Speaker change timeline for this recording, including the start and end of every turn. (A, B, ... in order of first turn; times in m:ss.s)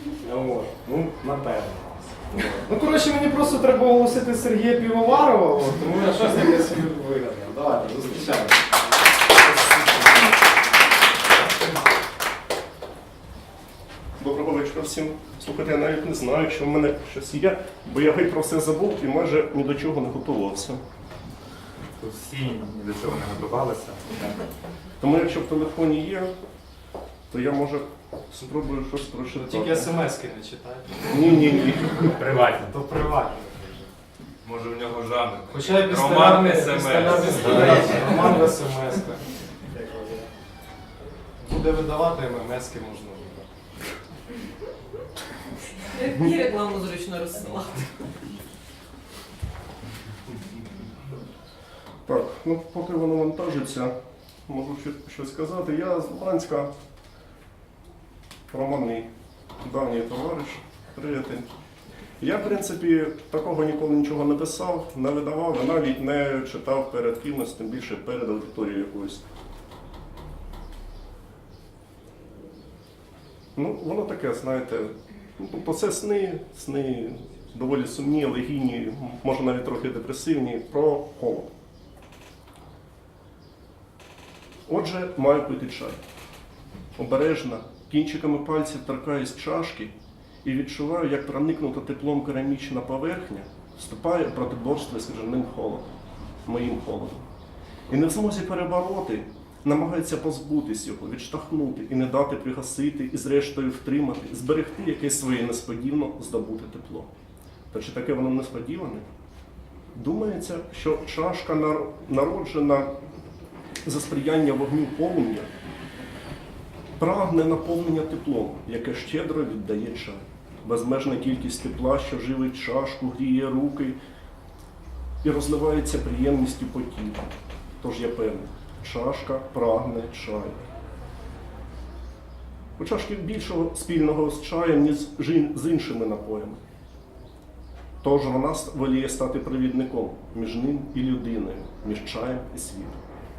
0:00.2-0:08.6 A
0:14.2-0:20.8 B
0:22.0-0:24.4 C
0:25.0-0:26.3 B
0:27.3-0:30.0 B
0:29.3-0:31.3 A
0:31.0-0:32.1 B
0:32.0-0:32.7 C
0:32.6-0:33.9 A
0:34.4-0:38.4 C
0:35.5-0:40.3 A
0:41.4-0:43.5 A
0:45.9-0:47.9 D
0:47.2-0:47.6 C
0:52.1-0:53.9 B
0:54.5-0:56.7 B
0:58.5-0:59.1 B
0:59.6-1:01.5 B
1:02.2-1:09.3 B
1:13.6-1:21.5 B
1:24.7-1:26.0 B
1:27.0-1:29.9 B
1:30.4-1:37.3 B
1:37.9-1:47.1 B
1:47.7-1:49.0 B
1:49.9-1:52.9 B
1:53.8-1:55.5 B
1:57.0-2:04.0 B
2:05.2-2:07.3 B
2:07.8-2:10.7 B
2:12.8-2:16.6 B
2:18.0-2:23.0 B